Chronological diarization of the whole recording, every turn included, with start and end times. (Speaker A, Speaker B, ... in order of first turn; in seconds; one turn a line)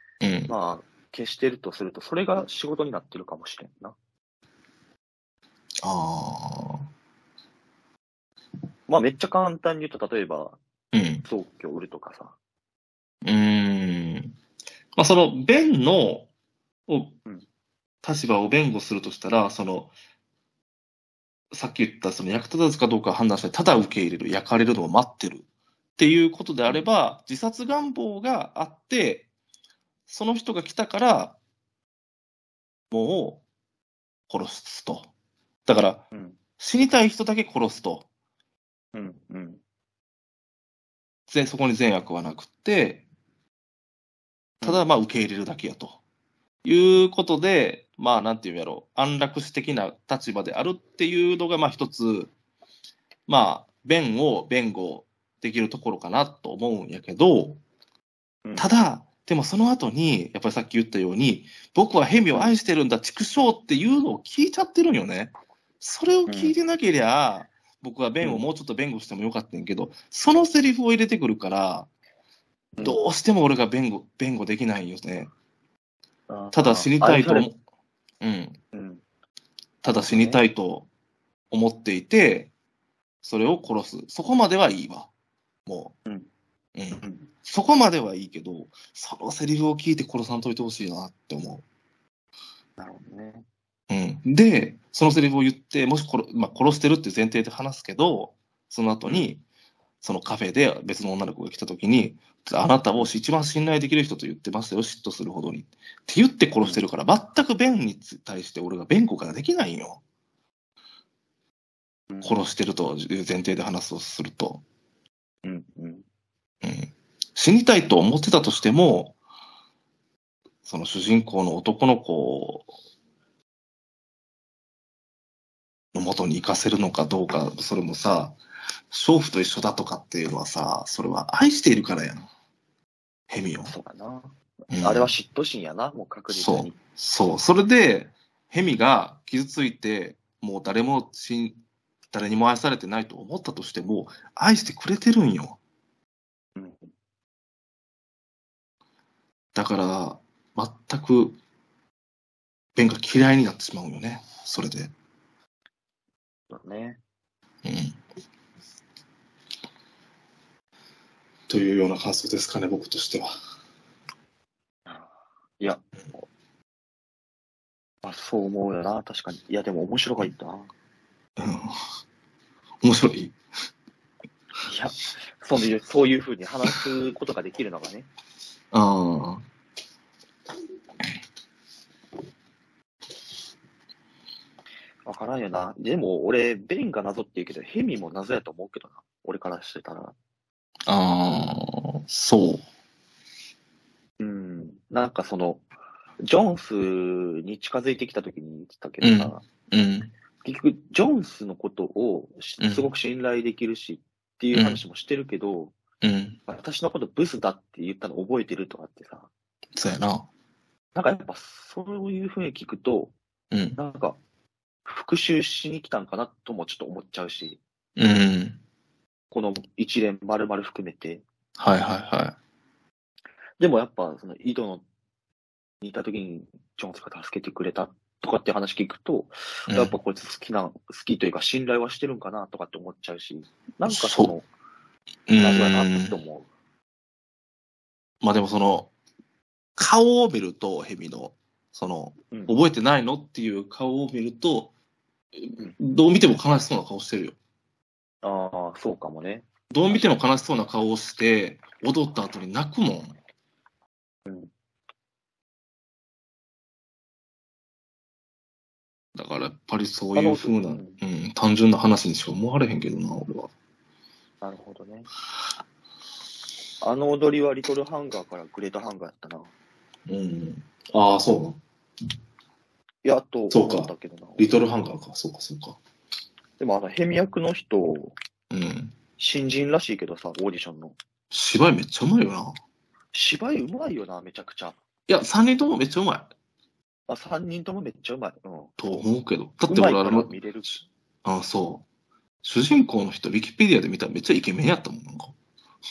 Speaker A: 0.2-0.5
Speaker B: 0.5-4.0
Speaker A: 5.8-6.9
Speaker B: 8.9-10.6
Speaker A: 10.9-11.2
Speaker B: 11.2-12.4
Speaker A: 13.2-14.4
Speaker A: 14.9-16.3
Speaker A: 16.9-17.2
Speaker A: 18.0-19.9
Speaker A: 21.5-25.4
Speaker A: 26.0-29.3
Speaker A: 30.1-31.4
Speaker A: 32.9-33.4
Speaker A: 34.3-35.1
Speaker A: 35.7-36.1
Speaker B: 36.1-36.4
Speaker A: 36.6-38.1
Speaker B: 38.9-39.6
Speaker A: 41.3-43.0
Speaker A: 44.6-46.0
Speaker A: 46.6-52.3
Speaker A: 53.3-57.6
Speaker A: 58.6-71.9
Speaker B: 66.3-66.5
Speaker A: 72.8-75.3
Speaker B: 76.3-77.5
Speaker A: 76.5-77.6
Speaker A: 78.2-78.6
Speaker B: 78.7-79.0
Speaker A: 79.8-80.9
Speaker B: 80.0-80.4
Speaker A: 81.5-82.5
Speaker A: 83.2-85.1
Speaker A: 85.7-86.0
Speaker A: 86.8-91.7
Speaker B: 92.8-93.5
Speaker A: 93.9-99.4
Speaker B: 99.0-99.3
Speaker A: 100.0-110.0
Speaker B: 112.1-112.4
Speaker A: 112.2-114.6
Speaker B: 115.5-116.0
Speaker A: 116.6-119.2
Speaker A: 120.7-122.7
Speaker A: 125.9-128.4
Speaker A: 128.9-132.3
Speaker A: 133.3-133.8
Speaker B: 133.6-136.8
Speaker A: 134.7-135.1
Speaker A: 136.3-141.6
Speaker A: 142.1-145.6
Speaker B: 146.6-146.9
Speaker A: 149.6-151.4
Speaker A: 152.8-154.9
Speaker B: 156.5-157.0
Speaker A: 157.6-158.0
Speaker A: 161.5-163.3
Speaker B: 164.9-166.3
Speaker B: 168.0-170.7
Speaker A: 171.4-171.8
Speaker A: 172.8-173.4
Speaker B: 174.7-178.1
Speaker A: 178.7-179.4
Speaker B: 185.1-190.2
Speaker A: 190.9-192.7
Speaker B: 194.2-195.6
Speaker B: 196.2-199.5
Speaker A: 199.0-200.1
Speaker B: 200.4-205.8
Speaker A: 202.6-202.9
Speaker A: 204.5-204.8
Speaker A: 206.0-206.4
Speaker B: 206.5-209.3
Speaker A: 209.8-210.3
Speaker B: 210.9-213.2
Speaker A: 213.5-213.8
Speaker B: 213.8-214.2
Speaker B: 214.8-217.6
Speaker A: 218.0-218.6
Speaker B: 219.3-221.2
Speaker A: 221.6-222.4
Speaker B: 223.6-224.8
Speaker B: 225.8-234.4
Speaker A: 229.7-229.9
Speaker A: 233.8-234.3
Speaker A: 235.3-236.2
Speaker B: 235.4-236.5
Speaker A: 238.2-238.9
Speaker A: 239.8-244.7
Speaker A: 245.4-247.4
Speaker B: 248.2-250.1
Speaker A: 249.7-253.2
Speaker B: 254.3-254.5
Speaker A: 259.1-263.5
Speaker B: 260.1-261.0
Speaker B: 264.4-265.1
Speaker B: 266.8-269.5
Speaker A: 270.1-271.6
Speaker B: 273.0-274.6
Speaker A: 273.5-275.8
Speaker B: 276.6-278.1
Speaker A: 278.5-278.9
Speaker B: 279.2-280.9
Speaker A: 281.3-282.6
Speaker B: 283.1-284.8
Speaker A: 285.1-286.3
Speaker B: 287.1-288.7
Speaker A: 288.8-290.3
Speaker B: 289.7-290.9
Speaker A: 291.2-291.9
Speaker A: 292.4-295.4